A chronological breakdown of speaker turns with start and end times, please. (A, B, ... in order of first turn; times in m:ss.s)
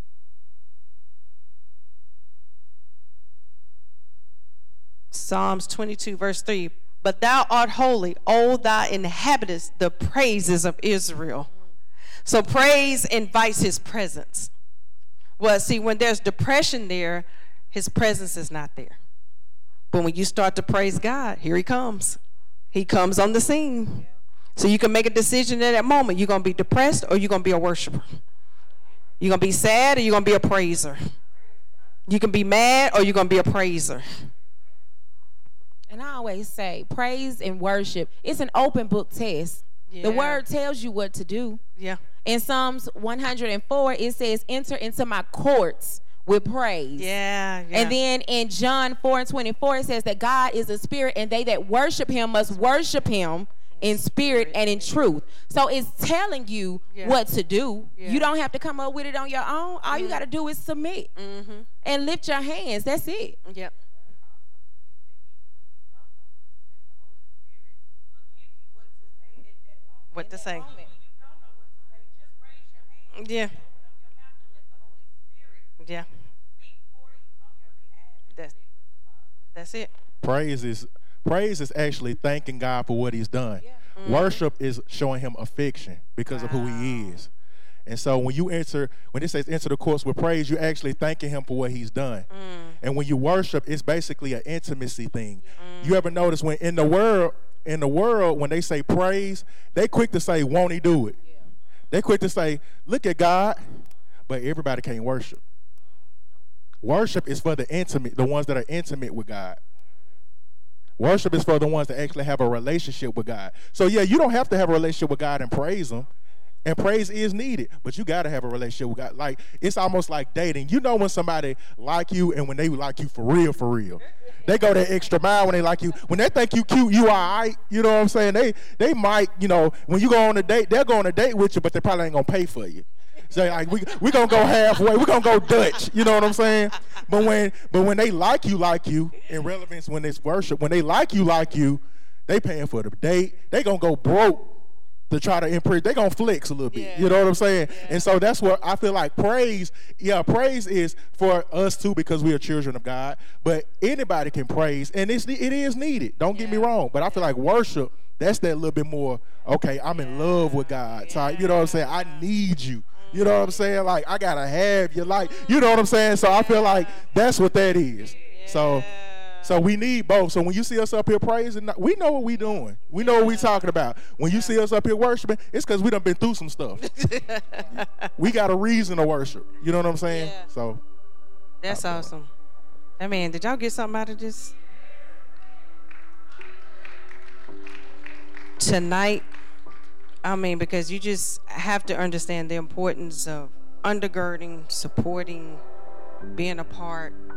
0:05.1-0:11.5 A
0:12.2-0:14.5 A
0:15.4-0:19.0 A
0:19.9-0:22.2 A
0:22.7-0:28.0 A
0:29.2-0:31.0 A
0:32.1-0:34.0 A
0:35.9-0:41.6 B
0:39.9-0:40.4 A
0:42.2-0:47.1 B
0:47.0-0:47.9 A
0:47.7-1:01.1 B
0:53.8-0:54.9 A
0:56.9-0:57.2 A
0:58.0-0:58.2 A
0:59.9-1:00.2 A
1:01.2-1:01.7 A
1:01.8-1:03.4 B
1:03.5-1:03.7 A
1:09.2-1:09.5 B
1:10.1-1:10.7 A
1:10.2-1:10.9 B
1:13.1-1:13.6 A
1:15.8-1:16.1 A
1:19.5-1:19.9 A
1:20.2-1:27.3 C
1:24.0-1:24.4 A
1:26.3-1:27.2 A
1:27.8-1:32.3 C
1:32.3-1:32.8 A
1:32.8-1:41.2 C
1:35.6-1:36.0 A
1:41.9-1:43.6 C
1:44.3-1:45.4 C
1:46.8-1:49.6 C
1:51.0-1:56.1 C
1:56.6-2:24.5 C
2:25.1-2:48.8 C
2:26.7-2:28.1 A
2:36.3-2:36.7 A
2:40.0-2:42.2 A
2:43.0-2:43.2 A
2:46.2-2:47.0 A
2:48.2-2:49.5 A
2:49.4-2:56.8 C
2:53.0-2:53.6 A
2:56.8-2:58.1 A
2:57.7-3:00.8 C
3:00.1-3:00.4 A
3:01.6-3:02.3 A
3:01.7-3:02.1 C
3:03.0-3:04.5 A
3:08.6-3:09.2 A
3:10.2-3:15.6 A
3:16.3-3:17.2 A